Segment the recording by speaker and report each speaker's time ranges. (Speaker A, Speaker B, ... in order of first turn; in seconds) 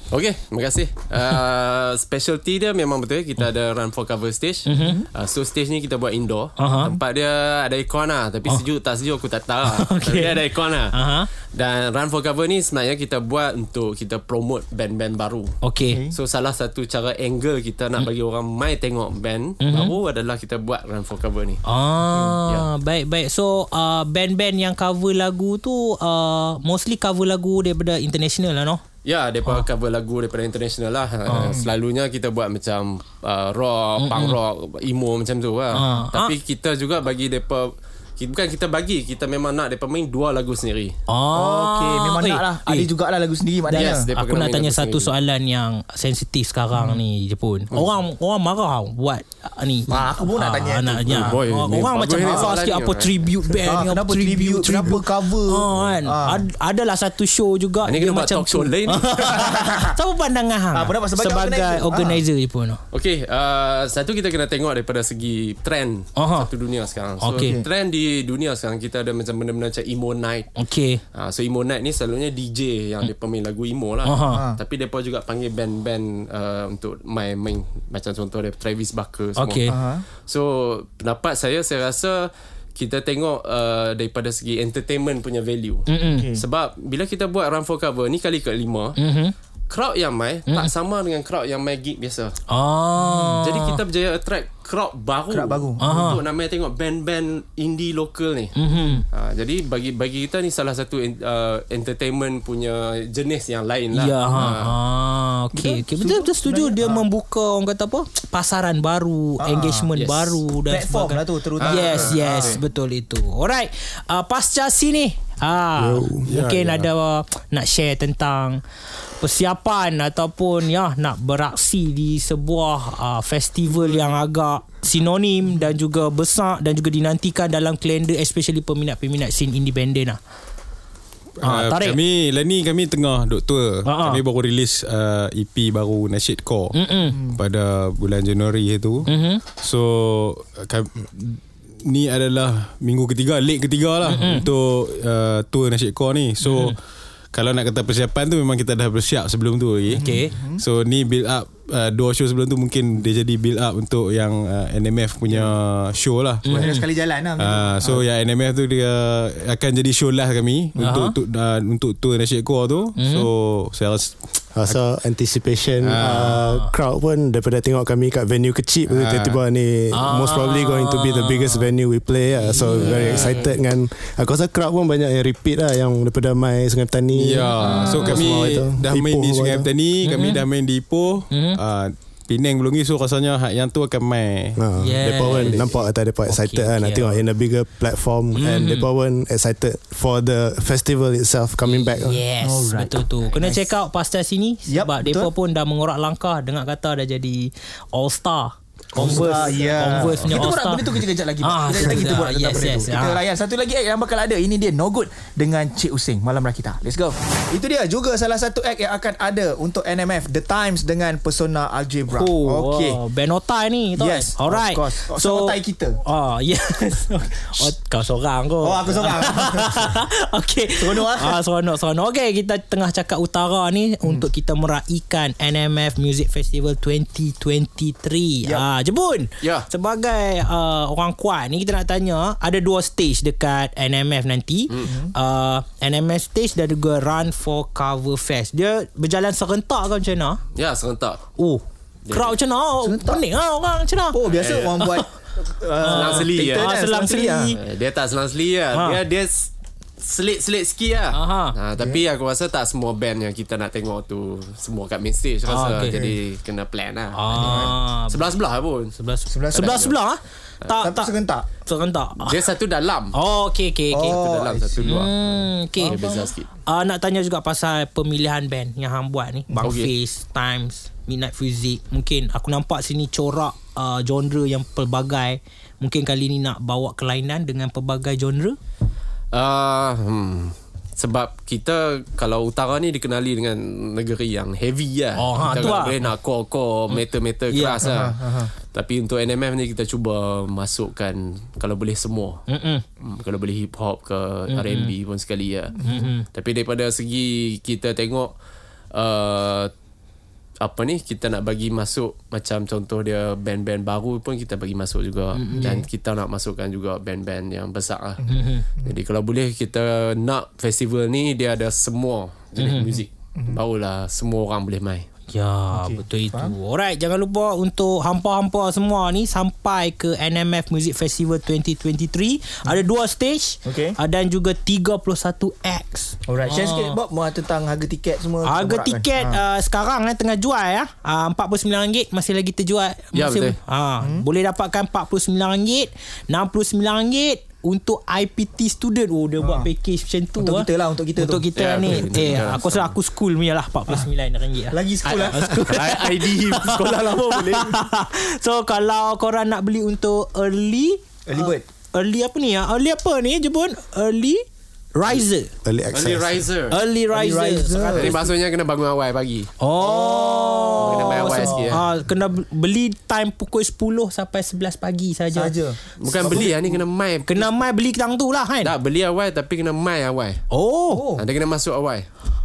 Speaker A: 0.1-15.6, 16.1-21.6, 29.1-41.0, 43.7-45.1, 51.1-53.2, 57.8-59.5, 62.9-70.5, 71.1-89.0, 89.7-92.4, 93.4-98.5, 99.1-104.8, 109.9-110.4, 111.6-112.6, 229.4-229.7, 240.6-241.2, 242.1-242.3, 244.3-244.9, 245.8-246.7, 247.6-258.9, 259.5-259.9, 262.2-263.1, 264.0-265.1, 265.8-266.5, 269.6-269.9, 279.3-288.2, 288.7-292.4, 293.0-298.3, 298.9-299.7, 300.6-315.1, 333.1-333.6, 341.6-342.9, 345.1-347.8, 355.9-356.8, 357.9-359.5, 360.8-361.8, 366.0-367.5, 368.6-370.4, 371.2-372.1
Speaker B: 4.7-5.0, 6.6-7.0, 9.7-11.3, 15.6-16.0, 19.6-19.9, 21.6-28.8, 31.3-31.6, 34.0-34.4, 35.7-36.3, 41.1-42.9, 43.7-62.8, 66.2-66.5, 67.2-67.6, 70.6-71.0, 74.0-74.4, 79.4-79.8, 85.9-86.3, 89.0-89.3, 92.5-93.8, 95.8-96.2, 98.5-99.0, 103.9-118.6, 119.2-130.2, 131.4-132.0, 133.8-134.2, 136.7-137.2, 139.1-139.4, 144.0-144.5, 146.4-146.8, 149.9-150.3, 156.4-156.9, 160.8-161.2, 163.0-163.3, 166.0-166.7, 169.9-171.7, 172.4-173.5, 177.6-178.2, 180.0-180.4, 181.3-181.6, 184.8-187.2, 188.3-188.9, 191.6-203.2, 212.1-240.4, 241.4-245.1, 245.8-247.6, 248.7-249.0, 251.1-251.6, 255.5-256.0, 257.1-258.3, 258.9-262.4, 263.1-264.2, 264.8-266.0, 266.7-278.6, 285.2-286.0, 287.5-287.9, 292.5-292.8, 294.5-294.9, 295.8-296.2, 305.4-305.8, 308.3-308.6, 312.6-313.0, 315.3-327.0, 328.4-354.4, 354.9-355.5, 356.7-358.3, 359.6-365.5, 367.3-368.7, 370.5-371.1
Speaker C: 4.8-5.1, 15.9-16.2, 22.1-22.4, 31.3-31.7, 41.3-44.1, 49.9-51.4, 52.2-52.5, 53.6-56.4, 59.3-60.0, 60.7-62.2, 67.4-67.7, 74.3-74.6, 79.7-80.0, 86.0-86.4, 93.1-93.3, 95.3-96.2, 105.5-107.0, 109.4-109.9, 110.7-112.6, 149.9-150.6, 156.5-158.1, 177.7-178.0, 192.4-193.7, 194.7-195.3, 199.0-213.0, 214.0-216.0, 218.6-219.9, 220.8-221.4, 234.8-235.1, 242.8-243.2, 244.1-247.6, 251.8-252.0, 255.9-256.1, 257.4-257.7, 259.3-259.9, 260.8-261.5, 263.9-265.0, 265.8-266.1, 269.5-269.7, 287.8-288.5, 295.8-296.1, 305.5-305.8, 308.2-308.9, 315.7-316.5, 323.6-324.0, 326.3-329.4, 334.0-334.2, 339.4-339.7, 340.4-341.5, 344.7-345.6, 351.3-351.6, 357.1-358.2, 359.8-361.8, 365.3-366.8, 370.9-371.2
Speaker D: 115.8-116.6, 164.6-179.7, 184.6-192.2, 355.6-356.4
Speaker E: 116.3-116.7, 131.4-146.8, 147.3-156.7, 157.4-164.8, 165.8-166.5, 168.9-169.4, 172.9-173.4, 177.2-184.6